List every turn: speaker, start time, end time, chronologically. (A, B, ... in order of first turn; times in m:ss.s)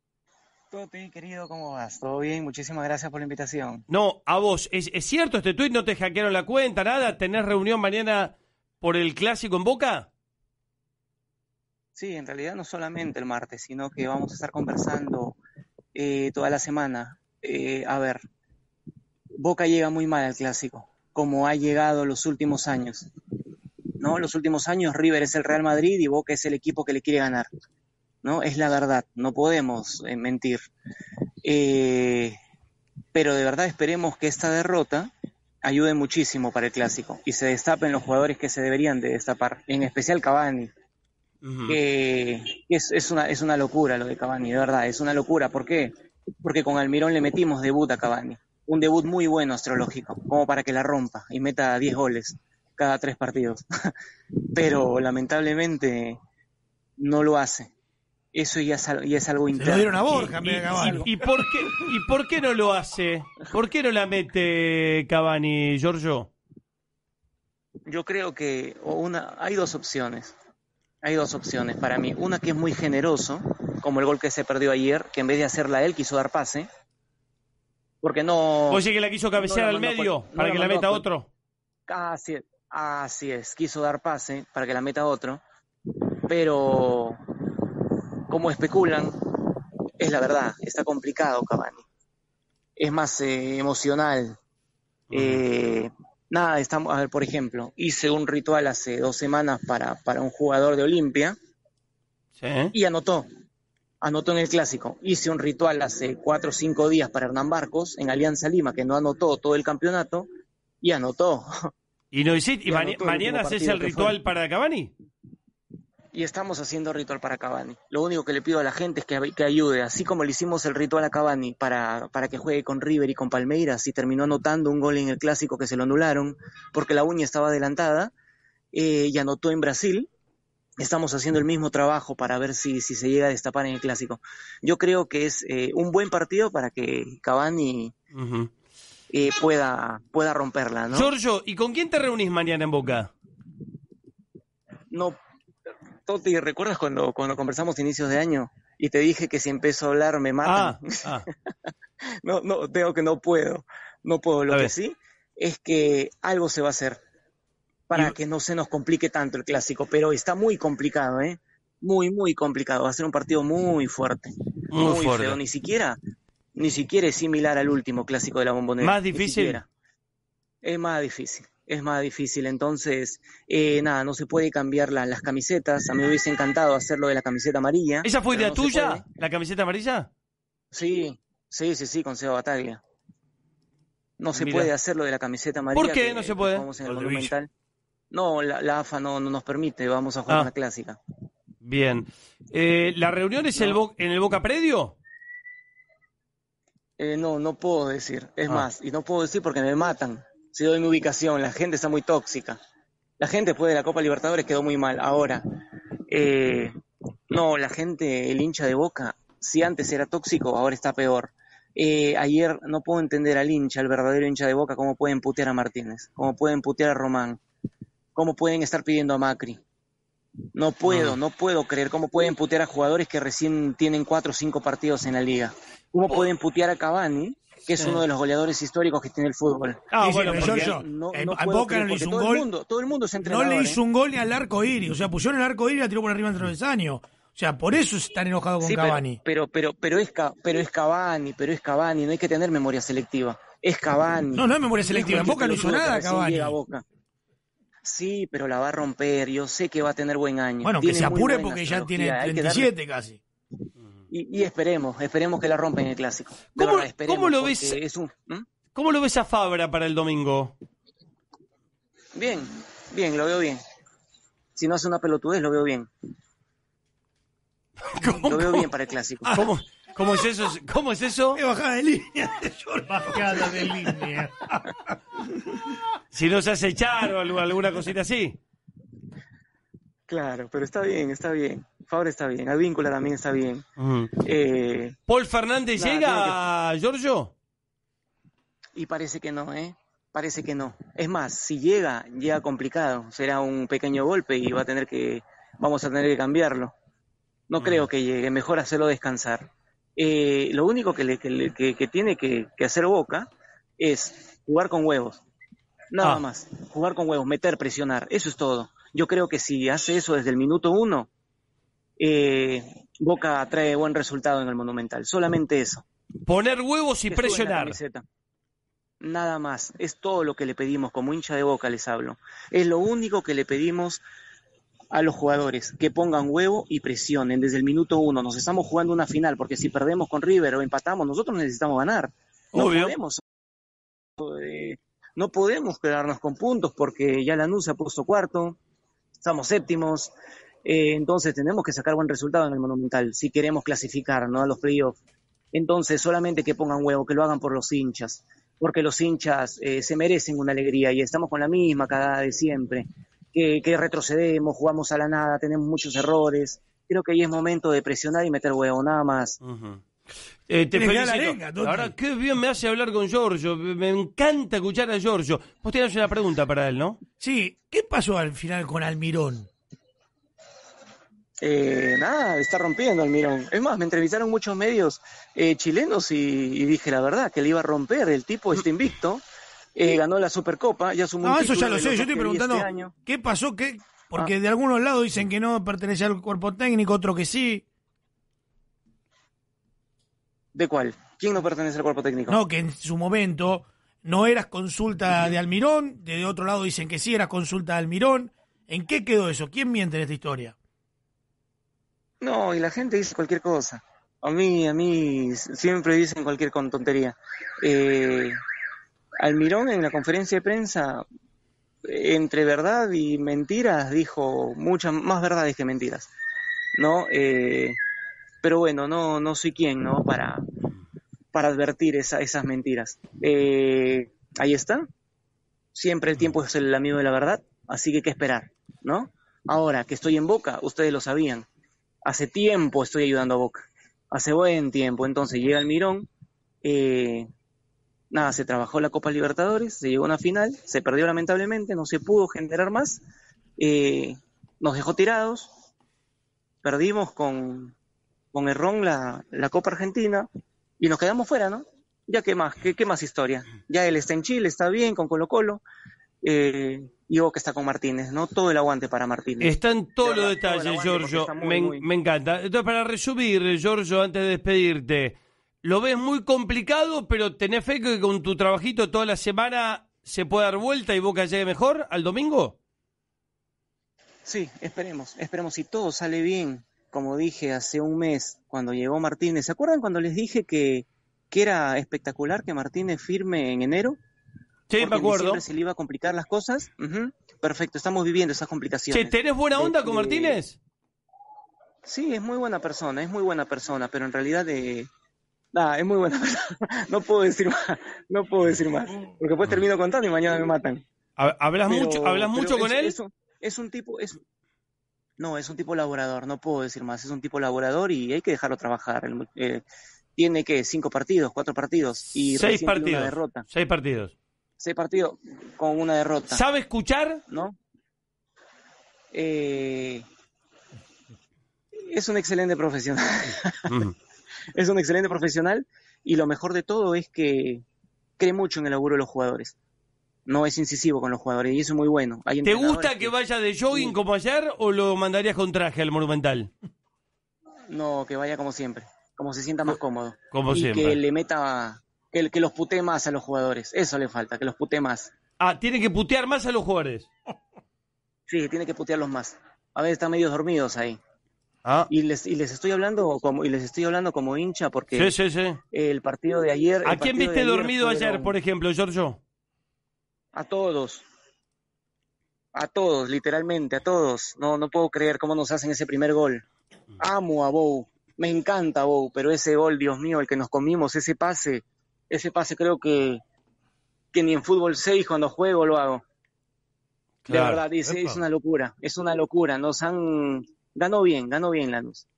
0:00.7-0:03.8 A
0:03.9-0:10.1 B
0:12.0-0:15.4 A
0:15.9-0:18.2 A
0:19.4-0:23.1 A
0:24.0-0:27.5 A
0:28.2-0:30.6 A
0:31.4-0:32.4 A
0:33.1-0:35.1 A
0:35.6-0:40.7 A
0:41.4-0:41.8 B
0:41.7-0:45.9 A
0:46.4-0:53.6 A
0:54.5-0:56.2 A
0:57.0-0:57.7 A
0:58.3-1:01.1 A
0:59.5-1:01.6 C
1:00.1-1:06.3 B
1:07.9-1:10.3 A
1:11.0-1:16.7 A
1:18.0-1:18.8 A
1:18.7-1:21.3 B
1:19.4-1:21.0 A
1:21.9-1:25.4 A
1:26.3-1:27.2 A
1:28.3-1:29.2 A
1:30.0-1:31.8 A
1:32.8-1:34.4 A
1:35.1-1:35.4 B
1:35.1-1:41.4 A
1:42.4-1:42.7 B
1:42.7-1:43.3 A
1:44.0-1:50.3 A
1:50.8-1:51.5 A
1:52.1-1:54.9 B
1:52.6-1:54.2 A
1:56.1-2:08.1 A
2:08.7-2:10.1 A
2:10.8-2:17.9 A
2:18.1-2:18.5 B
2:19.1-2:21.1 A
2:20.9-2:23.1 B
2:26.0-2:31.2 A
2:30.4-2:31.3 B
2:32.2-2:37.0 A
2:37.9-2:46.0 A
2:44.7-2:45.4 B
2:46.5-2:49.7 A
2:48.8-2:49.6 B
2:50.6-2:59.0 A
2:58.0-3:00.1 B
3:00.7-3:02.8 A
3:04.2-3:07.5 A
3:04.3-3:04.7 B
3:05.7-3:07.3 B
3:08.1-3:11.0 A
3:11.6-3:15.0 B
3:17.0-3:22.6 A
3:23.2-3:25.4 A
3:26.1-3:26.7 A
3:27.3-3:37.4 A
3:38.1-3:39.6 A
3:40.5-3:53.8 A
3:40.9-3:41.2 B
3:47.7-3:48.0 B
3:49.9-3:50.8 B
3:50.0-3:52.5 C
3:53.2-3:59.2 C
3:58.6-4:06.8 A
4:04.3-4:06.6 C
4:07.8-4:12.7 A
4:10.6-4:13.2 C
4:14.1-4:18.4 A
4:16.5-4:17.8 B
4:18.7-4:20.5 B
4:22.1-4:23.6 A
4:24.6-4:25.9 A
4:27.9-4:28.7 B
4:28.2-4:29.4 A
4:29.3-4:31.4 B
4:31.3-4:34.7 C
4:32.9-4:34.1 B
4:36.1-4:38.4 B
4:40.1-4:43.6 A
4:43.8-4:44.1 B
4:44.2-4:44.9 A
4:45.1-4:47.3 B
4:45.8-4:46.4 A
4:48.8-4:56.7 A
4:57.5-5:05.2 A
4:57.6-4:57.9 B
5:05.9-5:11.1 A
5:12.0-5:15.8 A
5:16.3-5:17.8 B
5:17.1-5:18.0 A
5:19.0-5:24.0 A
5:24.9-5:33.2 A
5:32.5-5:33.0 B
5:34.2-5:38.6 A
5:39.2-5:45.0 A
5:45.5-5:59.4 A
5:59.4-5:59.8 B
6:00.5-6:07.0 B
6:00.7-6:01.9 C
6:07.2-6:09.5 C
6:11.4-6:19.2 A
6:19.7-6:22.9 A
6:21.2-6:27.6 C
6:30.5-6:32.4 A
6:32.3-6:40.6 C
6:42.2-6:48.3 A
6:49.2-6:51.0 A
6:51.8-6:56.1 A
6:56.8-6:57.7 A
6:58.4-7:00.4 A
7:01.3-7:04.8 A
7:05.7-7:11.4 A
7:12.0-7:16.1 A
7:16.6-7:17.2 A
7:18.1-7:23.0 A
7:23.6-7:25.5 A
7:26.6-7:27.7 A
7:28.3-7:30.3 A
7:30.8-7:35.6 A
7:36.2-7:41.9 A
7:39.4-7:52.6 B
7:54.2-8:04.0 A
8:04.7-8:05.4 B
8:04.8-8:10.4 A
8:08.9-8:10.6 B
8:11.8-8:14.9 A
8:15.5-8:20.8 A
8:21.2-8:23.0 B
8:21.7-8:24.2 A
8:25.2-8:29.6 A
8:30.2-8:33.4 A
8:32.1-8:34.1 B
8:34.6-8:36.4 A
8:36.3-8:37.2 B
8:37.3-8:37.5 A
8:39.1-8:40.0 A
8:41.9-8:43.8 A
8:44.6-8:47.6 A
8:48.2-8:49.5 A
8:50.3-8:53.1 A
8:52.4-8:56.5 B
8:53.7-8:54.0 A
8:57.7-9:05.1 A
9:00.3-9:01.0 B
9:05.4-9:07.1 B
9:08.3-9:11.0 A
9:11.9-9:15.1 A
9:14.9-9:15.6 B
9:15.7-9:18.4 A
9:16.8-9:19.2 B
9:20.3-9:21.0 A
9:22.5-9:26.4 A
9:27.0-9:33.2 A
9:34.1-9:36.0 A
9:37.2-9:38.2 B
9:37.3-9:42.1 A